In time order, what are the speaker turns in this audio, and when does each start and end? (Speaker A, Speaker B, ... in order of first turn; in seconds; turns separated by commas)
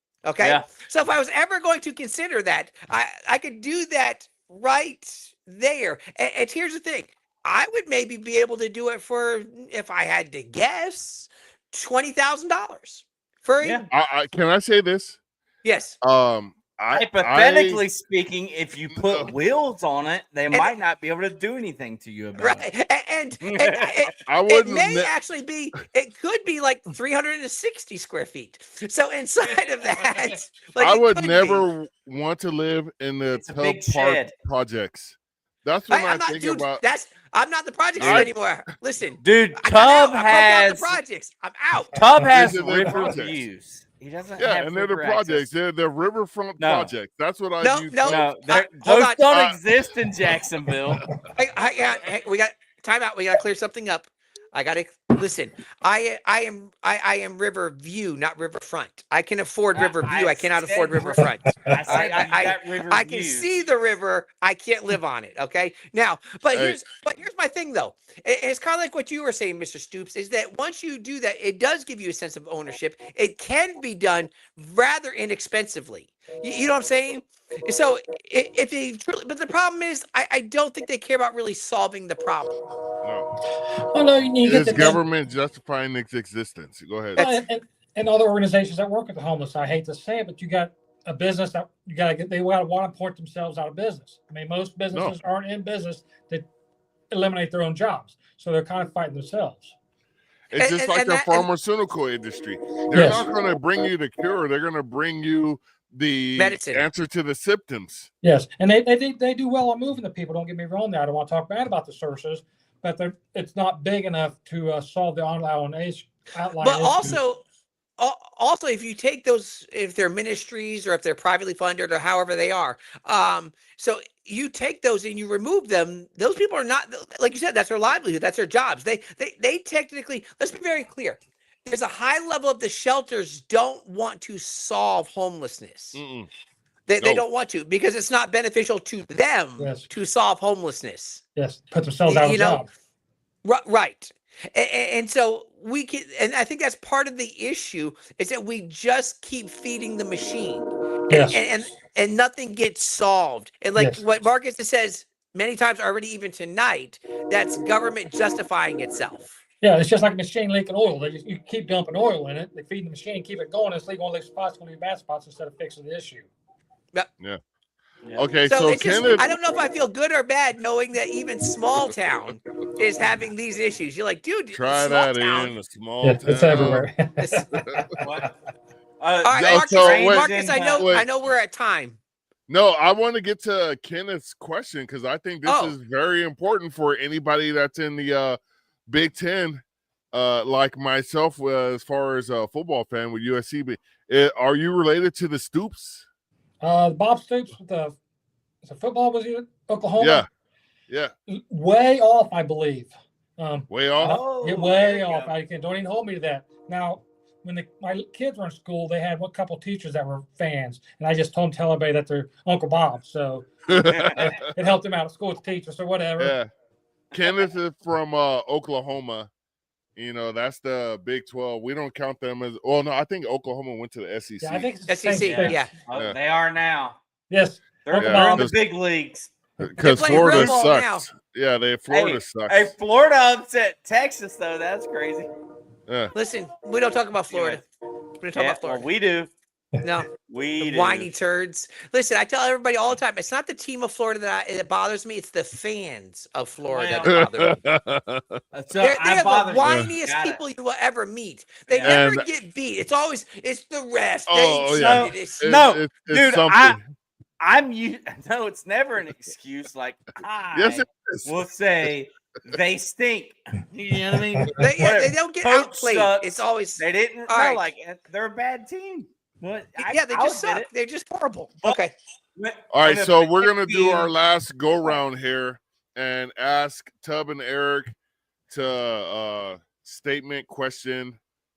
Speaker A: 0.2-13.9, Speaker B: 0.4-0.7, Speaker C: 13.9-15.2, Speaker A: 15.6-16.0, Speaker C: 16.0-17.9, Speaker B: 16.9-22.7, Speaker C: 18.9-19.3, Speaker A: 22.4-31.7, Speaker B: 23.4-24.1, Speaker C: 24.3-25.1, Speaker C: 30.8-36.8, Speaker B: 33.4-34.3, Speaker A: 35.9-42.0, Speaker B: 38.0-38.3, Speaker C: 38.0-38.3, Speaker B: 39.2-41.0, Speaker B: 41.9-45.5, Speaker C: 42.3-43.4, Speaker C: 44.4-48.3, Speaker B: 46.6-46.9, Speaker A: 47.6-49.2, Speaker B: 48.0-51.0, Speaker C: 49.3-49.6, Speaker A: 51.4-82.5, Speaker B: 59.8-63.5, Speaker C: 66.5-66.8, Speaker C: 83.0-83.3, Speaker D: 83.9-85.0, Speaker C: 84.4-87.3, Speaker D: 87.2-96.5, Speaker D: 97.1-99.7, Speaker C: 100.5-108.1, Speaker A: 100.6-101.5, Speaker D: 102.9-103.3, Speaker A: 106.4-106.8, Speaker D: 108.2-117.2, Speaker A: 116.6-117.4, Speaker A: 118.0-136.0, Speaker C: 135.9-136.3, Speaker A: 136.9-141.2, Speaker D: 139.6-139.9, Speaker D: 141.4-142.7, Speaker A: 142.1-142.6, Speaker A: 143.4-159.4, Speaker D: 151.1-151.5, Speaker D: 153.8-154.0, Speaker D: 159.6-166.3, Speaker C: 168.2-169.4, Speaker A: 168.5-175.5, Speaker C: 174.5-176.9, Speaker D: 176.0-177.9, Speaker A: 177.2-177.5, Speaker B: 178.0-178.3, Speaker B: 179.0-180.9, Speaker A: 179.2-182.0, Speaker C: 179.3-181.1, Speaker C: 182.5-189.6, Speaker A: 185.4-185.8, Speaker C: 190.1-196.1, Speaker D: 196.6-198.0, Speaker D: 198.6-200.3, Speaker C: 200.0-200.3, Speaker D: 201.3-213.5, Speaker C: 203.7-204.2, Speaker B: 204.0-205.3, Speaker C: 213.7-214.4, Speaker B: 213.9-214.3, Speaker D: 214.2-216.4, Speaker C: 216.2-216.5, Speaker C: 217.1-219.3, Speaker C: 220.0-224.7, Speaker D: 224.4-225.6, Speaker A: 224.9-225.7, Speaker B: 225.2-227.0, Speaker D: 227.3-228.5, Speaker B: 227.8-229.3, Speaker C: 228.0-228.6, Speaker C: 229.6-232.7, Speaker A: 229.8-231.1, Speaker B: 229.9-230.7, Speaker B: 231.9-235.3, Speaker C: 235.9-236.1, Speaker A: 236.2-237.6, Speaker B: 237.3-237.7, Speaker A: 238.2-238.9, Speaker B: 238.4-239.3, Speaker A: 239.8-240.1, Speaker B: 240.3-241.1, Speaker A: 240.6-247.6, Speaker B: 246.7-247.2, Speaker C: 247.1-248.4, Speaker B: 248.5-250.4, Speaker A: 248.8-255.4, Speaker B: 251.7-252.0, Speaker C: 251.8-252.3, Speaker C: 254.3-256.8, Speaker B: 254.7-256.8, Speaker B: 257.4-270.7, Speaker C: 260.5-261.4, Speaker A: 264.6-267.6, Speaker A: 269.8-271.9, Speaker B: 272.4-274.1, Speaker C: 272.7-277.9, Speaker C: 278.5-281.2